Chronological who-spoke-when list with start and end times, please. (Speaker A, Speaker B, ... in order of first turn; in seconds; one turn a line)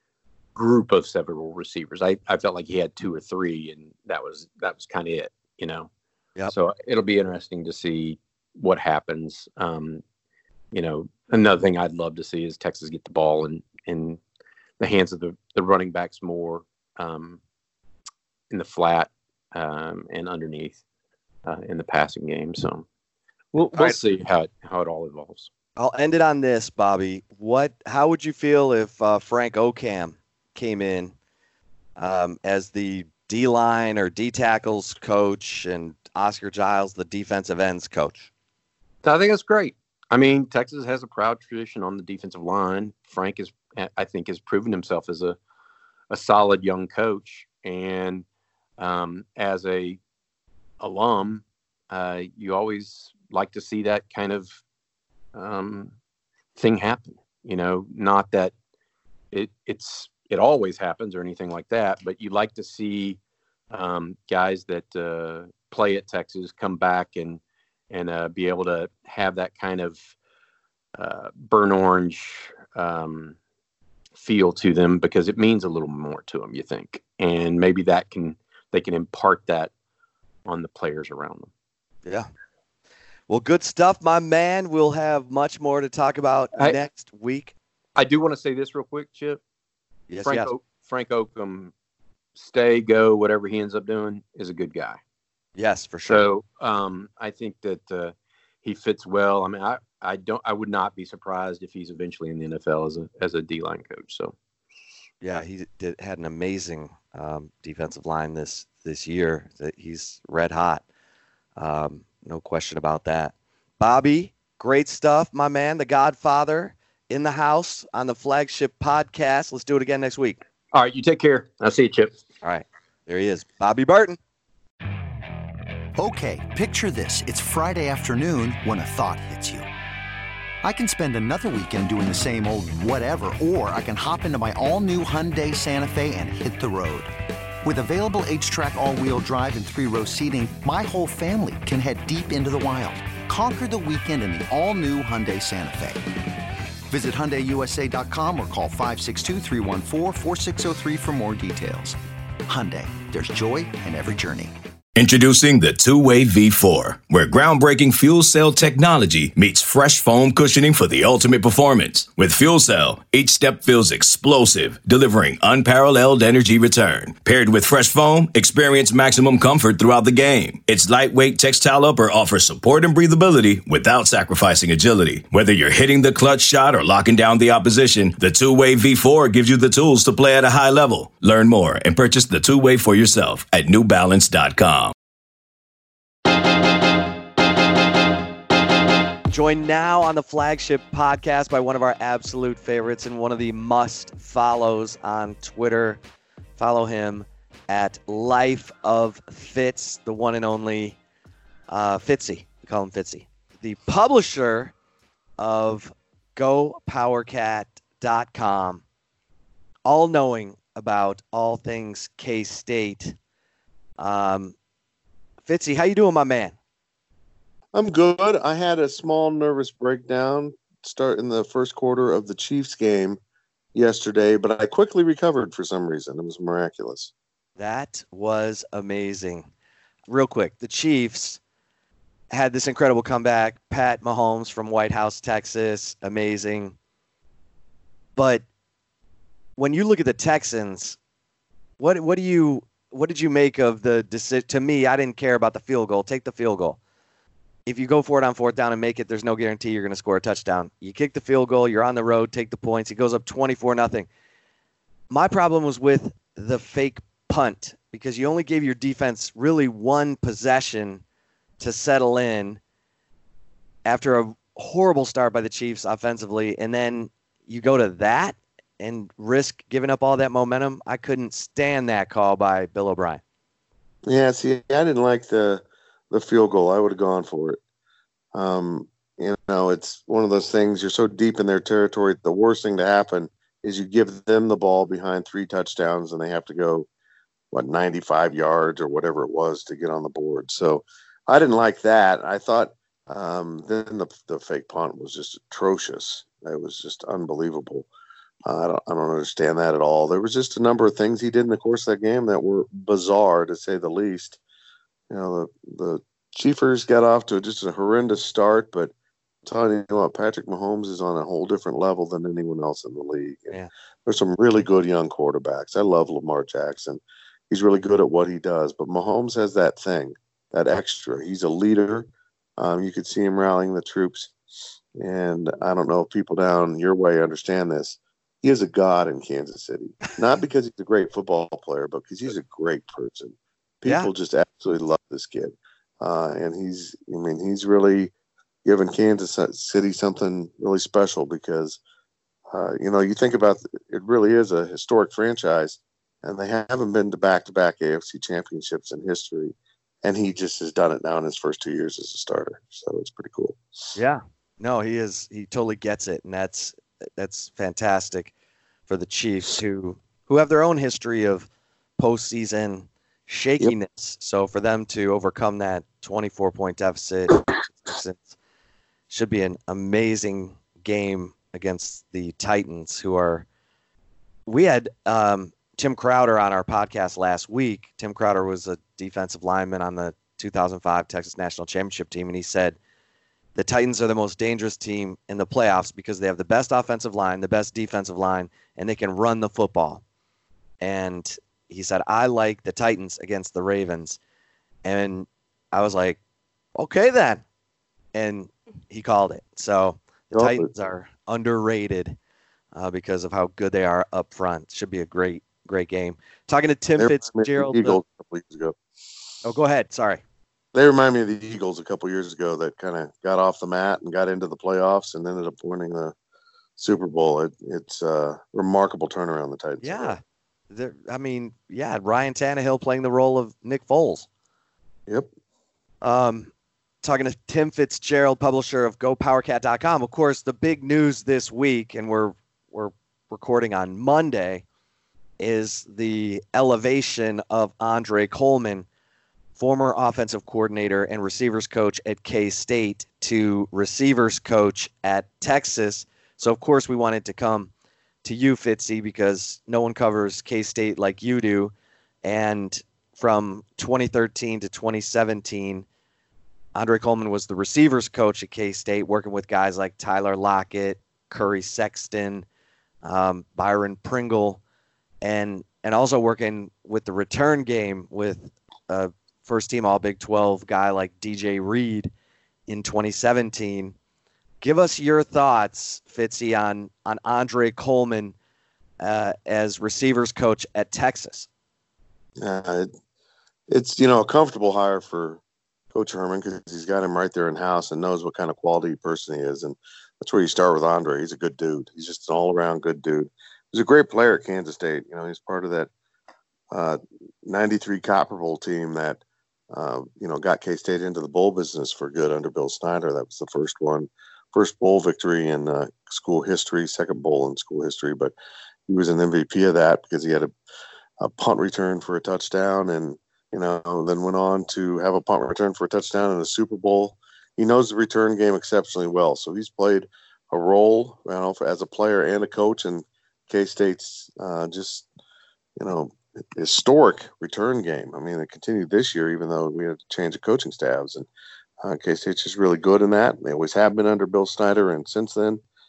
Speaker A: 0.5-5.9
Speaker A: 6.5-10.0
Speaker A: 10.7-14.2
Speaker A: 14.8-17.4
Speaker A: 18.5-20.8
Speaker A: 21.4-22.9
Speaker A: 23.5-25.5
Speaker B: 25.8-31.1
Speaker B: 32.0-38.3
Speaker A: 39.0-45.4
Speaker A: 46.1-48.2
Speaker A: 48.8-50.0
Speaker A: 50.8-54.6
Speaker A: 55.3-55.9
Speaker A: 56.5-58.5
Speaker A: 59.3-63.2
Speaker A: 63.7-70.1
Speaker A: 71.0-73.4
Speaker A: 74.2-79.7
Speaker A: 80.4-81.5
Speaker B: 83.3-87.5
Speaker A: 88.0-89.4
Speaker B: 90.1-90.5
Speaker A: 90.2-91.7
Speaker A: 92.3-95.0
Speaker B: 95.5-96.3
Speaker A: 96.1-104.3
Speaker B: 105.2-110.8
Speaker B: 111.5-120.4
Speaker A: 120.7-122.2
Speaker B: 122.4-124.2
Speaker C: 126.0-129.7
Speaker C: 130.6-137.1
Speaker C: 137.6-146.0
Speaker C: 146.9-154.5
Speaker D: 154.9-184.9
Speaker B: 189.3-196.0
Speaker B: 196.6-201.0
Speaker B: 201.7-204.7
Speaker B: 205.4-208.8
Speaker B: 209.8-213.2
Speaker B: 214.0-214.5
Speaker B: 215.4-216.5
Speaker E: 217.7-223.2
Speaker E: 223.7-227.1
Speaker B: 227.6-229.5
Speaker B: 230.1-231.4
Speaker B: 232.3-236.7
Speaker B: 238.2-238.4
Speaker B: 239.6-241.0
Speaker B: 241.8-246.8
Speaker B: 247.7-254.1
Speaker B: 255.1-261.0
Speaker B: 261.6-262.6
Speaker B: 263.8-273.2
Speaker E: 274.1-277.6
Speaker E: 278.3-286.9
Speaker E: 287.5-297.9
Speaker E: 298.4-304.4
Speaker E: 305.1-308.9
Speaker E: 309.4-324.3
Speaker E: 325.0-338.1
Speaker B: 333.8-334.1
Speaker E: 338.6-341.8
Speaker E: 342.5-353.6
Speaker B: 353.9-358.3
Speaker B: 358.9-368.3
Speaker B: 369.1-373.4
Speaker B: 374.5-382.8
Speaker B: 383.5-390.0
Speaker B: 390.8-394.2
Speaker B: 394.8-396.2
Speaker B: 396.8-397.4
Speaker B: 398.1-402.2
Speaker E: 400.3-400.7
Speaker B: 402.7-408.0
Speaker E: 407.0-408.8
Speaker B: 409.4-410.2
Speaker E: 410.7-416.1
Speaker E: 416.8-420.1
Speaker B: 419.8-420.2
Speaker B: 420.7-424.3
Speaker B: 426.0-426.5
Speaker B: 427.0-434.6
Speaker B: 435.4-438.9
Speaker B: 439.6-447.7
Speaker B: 448.2-451.7
Speaker B: 452.2-455.9
Speaker B: 456.7-462.4
Speaker B: 463.0-464.6
Speaker B: 465.2-472.1
Speaker B: 472.7-473.9
Speaker B: 474.6-478.3
Speaker B: 479.0-481.5
Speaker E: 482.4-482.9
Speaker E: 483.7-485.4
Speaker E: 485.9-495.9
Speaker E: 496.7-508.3
Speaker E: 508.9-510.5
Speaker E: 511.2-525.1
Speaker E: 525.8-531.3
Speaker E: 531.8-535.6